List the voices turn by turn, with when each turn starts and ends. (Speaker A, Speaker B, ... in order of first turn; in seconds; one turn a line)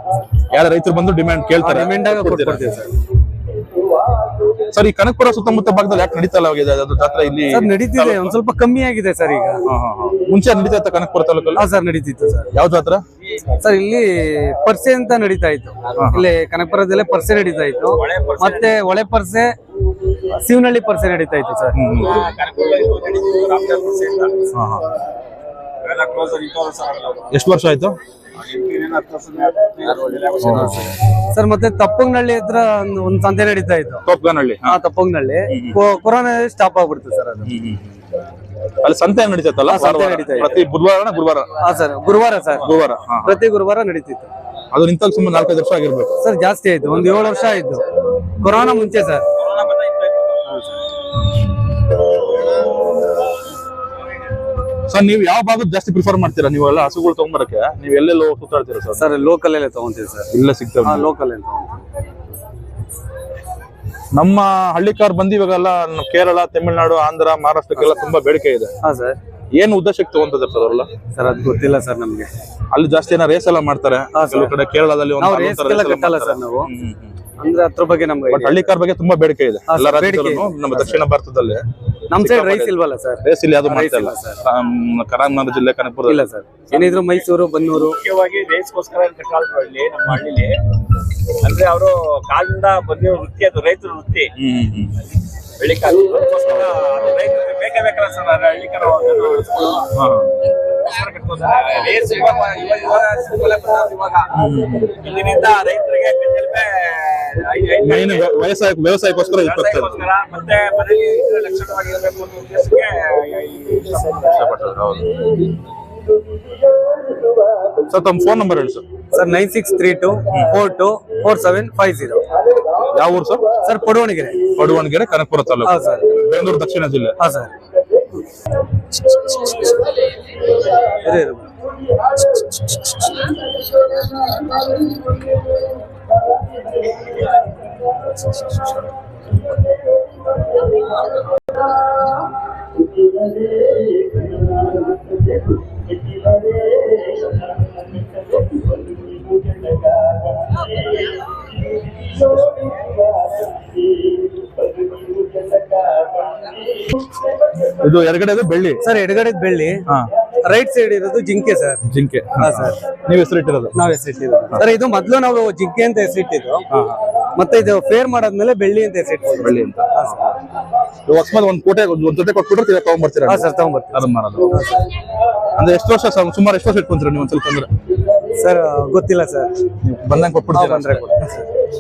Speaker A: 0.5-2.7
Speaker B: 1.6-2.9
Speaker A: 4.7-8.3
Speaker B: 7.5-9.6
Speaker A: 9.7-11.7
Speaker B: 11.5-12.5
Speaker A: 12.5-13.0
Speaker B: 13.6-19.5
Speaker A: 15.9-16.2
Speaker C: 17.9-18.8
Speaker B: 20.2-21.8
Speaker A: 21.7-22.2
Speaker C: 22.0-24.5
Speaker A: 24.5-24.9
Speaker C: 25.8-27.3
Speaker A: 27.3-28.0
Speaker C: 28.4-30.8
Speaker A: 30.4-30.9
Speaker B: 30.5-34.0
Speaker A: 34.0-34.8
Speaker B: 34.6-37.5
Speaker A: 35.5-35.8
Speaker A: 37.4-37.9
Speaker A: 38.8-41.6
Speaker B: 39.7-40.7
Speaker B: 41.6-44.3
Speaker A: 42.6-43.4
Speaker A: 44.7-46.2
Speaker B: 46.2-49.3
Speaker C: 49.4-50.4
Speaker B: 50.5-50.8
Speaker A: 54.9-59.1
Speaker B: 59.0-60.3
Speaker A: 60.3-61.1
Speaker B: 60.8-61.8
Speaker A: 64.1-68.7
Speaker B: 68.8-69.2
Speaker A: 69.5-70.9
Speaker B: 71.1-72.3
Speaker A: 72.7-77.1
Speaker B: 74.1-74.5
Speaker B: 75.2-76.7
Speaker B: 77.4-78.7
Speaker A: 78.3-81.6
Speaker B: 79.7-81.0
Speaker B: 82.1-84.4
Speaker A: 82.1-86.2
Speaker B: 86.0-88.0
Speaker C: 86.7-87.2
Speaker C: 87.7-90.6
Speaker C: 91.4-94.3
Speaker A: 94.3-95.0
Speaker C: 95.6-100.0
Speaker A: 99.9-100.3
Speaker C: 100.8-104.4
Speaker A: 104.3-105.0
Speaker C: 104.9-108.3
Speaker A: 107.8-110.0
Speaker C: 109.4-114.4
Speaker A: 114.2-115.3
Speaker A: 117.9-118.8
Speaker B: 119.1-122.2
Speaker A: 122.9-123.6
Speaker B: 123.6-124.5
Speaker A: 124.5-127.2
Speaker B: 125.6-126.2
Speaker B: 127.2-127.5
Speaker B: 130.8-131.5
Speaker A: 157.8-158.8
Speaker B: 158.8-159.9
Speaker B: 160.4-161.8
Speaker A: 161.9-163.7
Speaker B: 162.4-162.8
Speaker B: 163.7-166.7
Speaker A: 166.7-167.0
Speaker B: 167.3-170.3
Speaker A: 169.4-170.3
Speaker A: 171.1-174.6
Speaker B: 173.2-174.9
Speaker A: 175.6-177.7
Speaker B: 178.4-179.5
Speaker A: 179.8-181.2
Speaker B: 180.5-181.5